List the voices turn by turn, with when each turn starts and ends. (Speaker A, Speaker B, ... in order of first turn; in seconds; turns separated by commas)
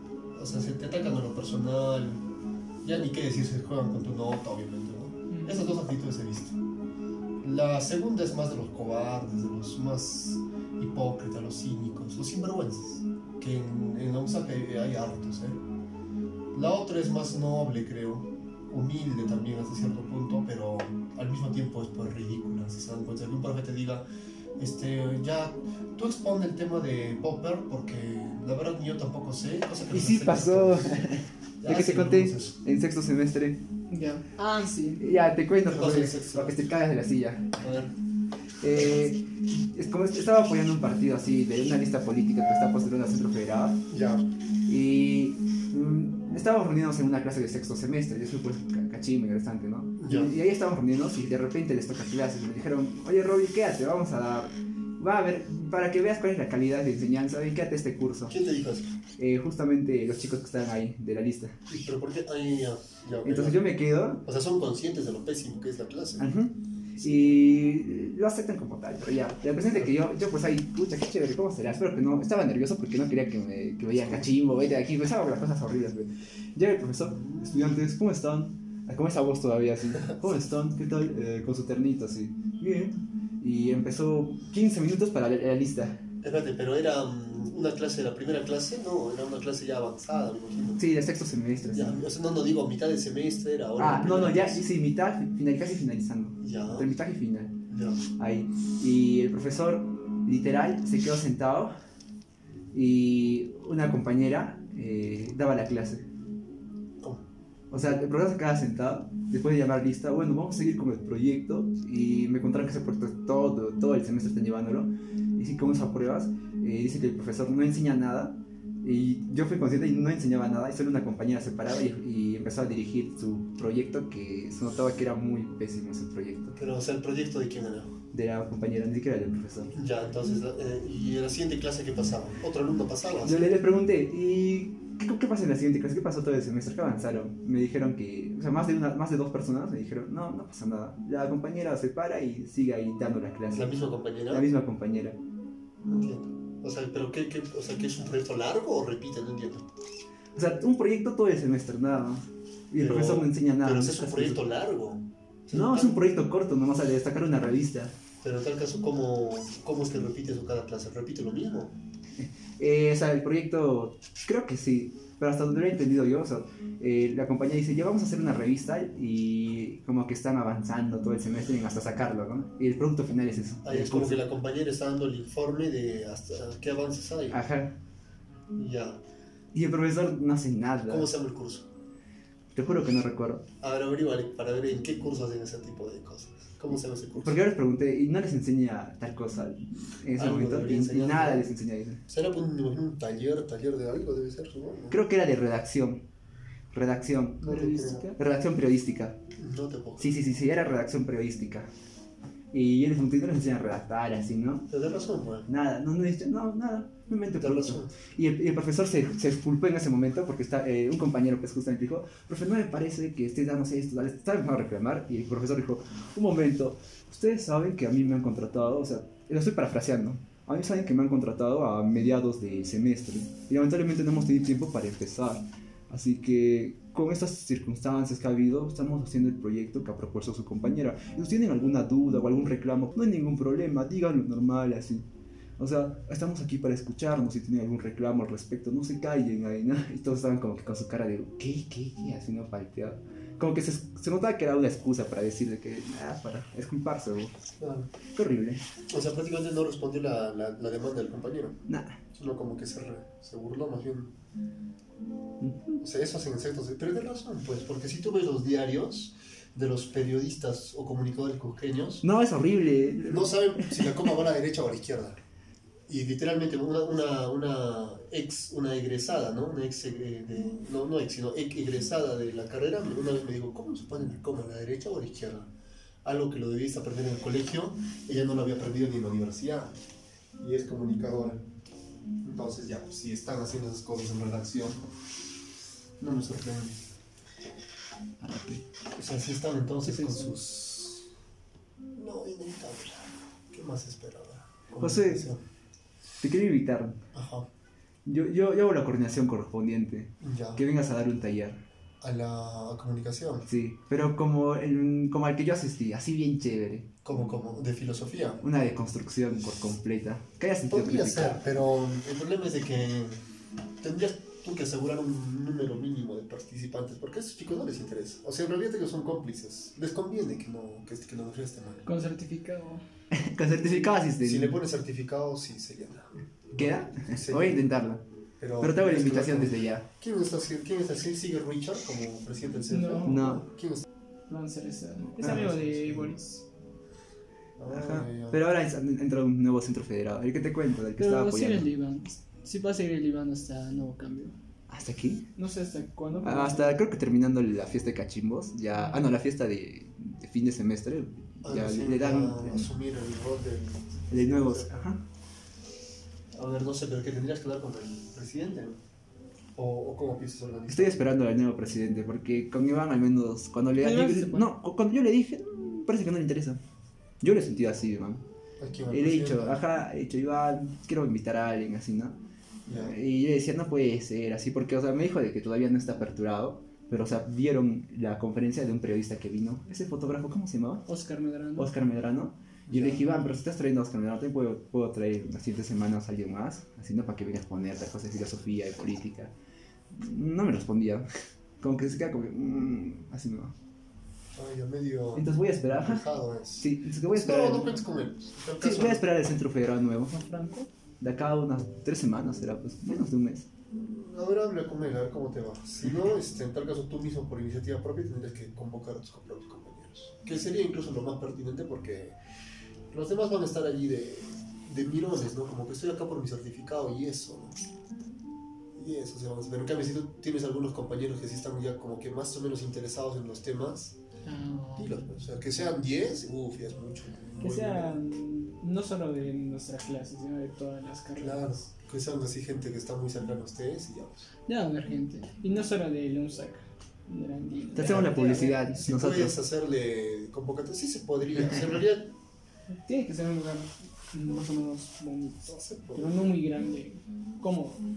Speaker A: 0.3-2.2, Speaker A: 2.8-6.6, Speaker B: 5.3-5.7, Speaker A: 7.4-15.6, Speaker A: 16.5-24.1, Speaker A: 24.6-32.5, Speaker C: 29.9-33.6, Speaker B: 33.9-35.0, Speaker C: 35.0-37.6, Speaker A: 35.7-36.6, Speaker A: 37.6-37.9, Speaker C: 38.6-43.8, Speaker A: 43.9-44.2, Speaker C: 44.6-58.3, Speaker A: 50.0-50.3, Speaker A: 58.3-58.9, Speaker C: 59.2-61.6, Speaker A: 61.7-63.7, Speaker C: 63.2-64.2, Speaker A: 64.2-66.3, Speaker C: 66.2-86.0, Speaker A: 67.0-67.3, Speaker A: 74.0-74.3, Speaker A: 77.1-77.9, Speaker A: 86.2-90.8, Speaker C: 90.8-92.0, Speaker A: 91.7-94.6, Speaker C: 93.8-97.6, Speaker A: 96.4-96.9, Speaker A: 97.7-98.0, Speaker C: 98.2-101.7, Speaker C: 102.7-106.1, Speaker C: 107.7-126.6, Speaker A: 126.5-128.0, Speaker C: 128.1-129.7, Speaker A: 129.7-133.5, Speaker C: 133.2-143.7, Speaker A: 143.5-144.4, Speaker C: 144.3-145.2, Speaker A: 145.8-149.7, Speaker C: 150.3-154.4, Speaker A: 152.8-156.1, Speaker C: 155.5-157.9, Speaker A: 158.2-161.7, Speaker C: 162.2-174.2, Speaker A: 173.6-177.4, Speaker C: 177.3-177.8, Speaker A: 178.5-179.0, Speaker C: 179.5-181.1, Speaker A: 180.9-181.7, Speaker C: 182.5-183.4, Speaker A: 183.6-187.4, Speaker C: 187.2-192.0, Speaker A: 190.1-191.5, Speaker A: 192.1-195.0, Speaker C: 194.9-196.1, Speaker C: 196.7-199.2, Speaker A: 197.4-198.1, Speaker B: 197.5-198.2, Speaker A: 199.3-200.1, Speaker C: 200.0-201.7, Speaker C: 202.5-204.7, Speaker A: 204.7-205.5, Speaker C: 205.5-235.1, Speaker A: 207.4-207.9, Speaker C: 235.6-247.4, Speaker A: 247.6-247.9, Speaker C: 248.1-248.6, Speaker A: 248.9-251.6, Speaker C: 251.7-252.0, Speaker A: 252.1-254.1, Speaker C: 255.4-255.8, Speaker A: 255.8-262.0, Speaker C: 262.0-264.1, Speaker A: 263.1-265.2, Speaker A: 265.9-275.5, Speaker A: 276.0-279.8, Speaker A: 280.4-281.5, Speaker A: 282.2-284.8, Speaker A: 286.0-286.8, Speaker C: 288.2-288.6, Speaker A: 288.9-291.1, Speaker B: 289.8-290.4, Speaker A: 291.9-295.4, Speaker C: 294.8-295.2, Speaker C: 296.2-297.0, Speaker A: 297.1-297.5, Speaker C: 298.1-301.6, Speaker A: 300.2-300.6, Speaker A: 302.0-303.5, Speaker C: 303.5-306.9, Speaker A: 307.0-308.4, Speaker C: 308.4-311.4, Speaker A: 310.7-313.2, Speaker A: 313.8-321.9, Speaker B: 321.8-322.8, Speaker C: 323.1-324.6, Speaker B: 323.5-323.9, Speaker A: 324.2-327.7, Speaker C: 326.6-328.0, Speaker A: 328.4-333.8, Speaker C: 328.6-329.9, Speaker B: 332.7-333.2, Speaker C: 333.1-333.4, Speaker B: 334.3-336.4, Speaker A: 335.2-336.1, Speaker A: 337.6-338.4, Speaker C: 337.7-341.7, Speaker B: 341.0-344.4, Speaker C: 344.7-345.2, Speaker B: 345.4-346.8, Speaker C: 346.2-352.7, Speaker B: 348.7-349.1, Speaker A: 351.4-354.9, Speaker C: 354.1-355.0, Speaker A: 356.3-358.8, Speaker A: 359.6-361.1, Speaker C: 360.7-366.6, Speaker B: 363.8-364.5, Speaker C: 367.2-368.2, Speaker A: 368.6-369.6, Speaker C: 368.9-372.2, Speaker A: 372.6-372.9, Speaker C: 372.7-380.9, Speaker B: 380.9-381.7, Speaker C: 381.6-389.3, Speaker A: 382.7-383.4, Speaker C: 389.9-391.1, Speaker C: 391.6-393.5, Speaker A: 394.3-399.0, Speaker C: 395.1-396.0, Speaker C: 396.6-397.8, Speaker C: 398.6-400.1, Speaker B: 400.1-400.7, Speaker C: 401.0-403.5, Speaker A: 403.7-412.2, Speaker A: 412.9-417.6, Speaker A: 418.7-423.9, Speaker B: 424.2-425.1, Speaker A: 424.8-428.0, Speaker B: 427.4-431.6, Speaker A: 431.1-434.3, Speaker B: 434.5-438.8, Speaker C: 437.7-439.4, Speaker A: 437.8-442.1, Speaker C: 441.4-441.8, Speaker B: 442.7-447.8, Speaker A: 445.4-446.2